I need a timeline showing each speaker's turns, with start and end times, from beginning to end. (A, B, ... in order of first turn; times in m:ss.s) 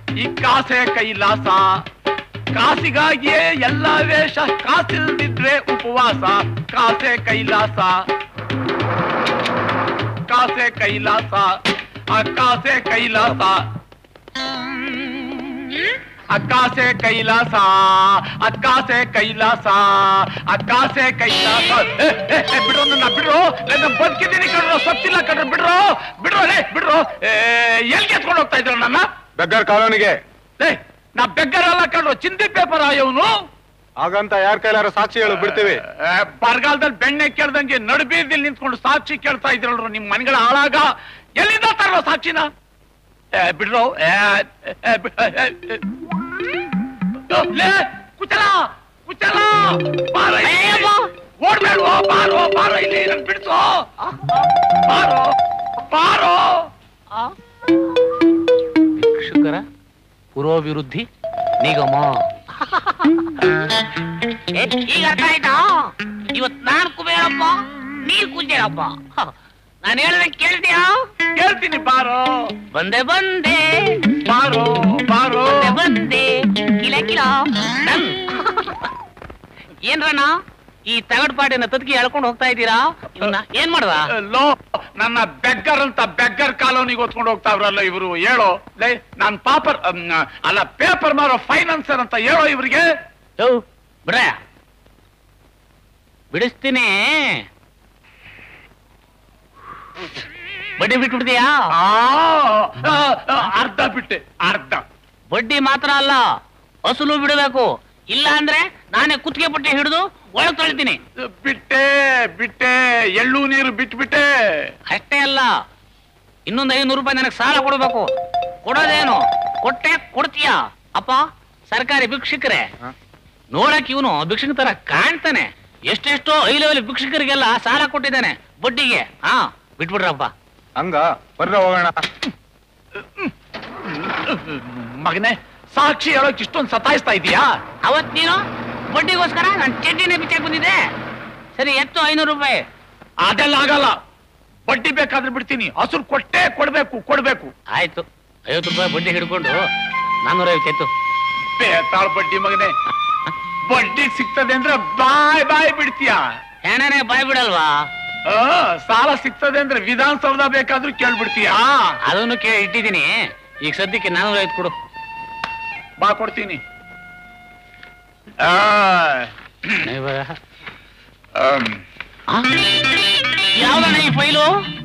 0:00.2-0:01.8 A
0:02.5-0:08.0 A
0:10.3-0:11.6 A
0:12.1-0:13.6 A
0:16.3-0:29.0 A
0:29.4-0:30.2 B
0:30.6-0:33.3 A
0:34.0-0:35.8 B
0:35.3-0:42.5 A
0:43.4-0:45.8 A
0:47.3-0:53.9 A
0:50.4-0:51.1 C
0:54.1-0:54.4 C
0:54.8-0:56.7 A
0:59.0-0:59.6 C
1:00.3-1:01.0 C
1:01.6-1:03.5 C
1:04.5-1:09.3 C
1:09.8-1:11.0 C
1:11.3-1:12.5 A
1:12.7-1:14.0 C
1:14.2-1:15.8 A
1:15.5-1:18.9 C
1:19.8-1:20.3 C
1:20.9-1:24.1 C
1:24.1-1:32.9 A
1:33.4-1:34.3 C
1:36.3-1:37.4 C
1:40.8-1:41.5 C
1:41.7-1:44.8 A
1:45.3-1:46.2 C
1:46.8-1:51.0 C
1:51.3-1:54.7 A
1:54.9-1:55.5 C
1:56.5-1:58.1 C
1:58.6-2:01.2 C
2:01.7-2:02.6 C
2:03.5-2:10.3 C
2:10.8-2:12.0 B
2:13.0-2:13.3 A
2:13.9-2:17.5 A
2:17.8-2:20.8 C
2:21.6-2:22.6 C
2:23.2-2:24.0 A
2:24.7-2:27.5 A
2:27.7-2:29.6 C
2:30.2-2:30.9 C
2:31.5-2:32.7 A
2:33.7-2:36.2 A
2:36.6-2:37.8 C
2:38.3-2:41.9 A
2:42.0-2:43.1 C
2:43.6-2:44.7 C
2:46.0-2:46.6 A
2:48.4-2:49.3 A
2:49.8-2:50.4 C
2:51.4-2:51.8 A
2:53.6-2:54.5 C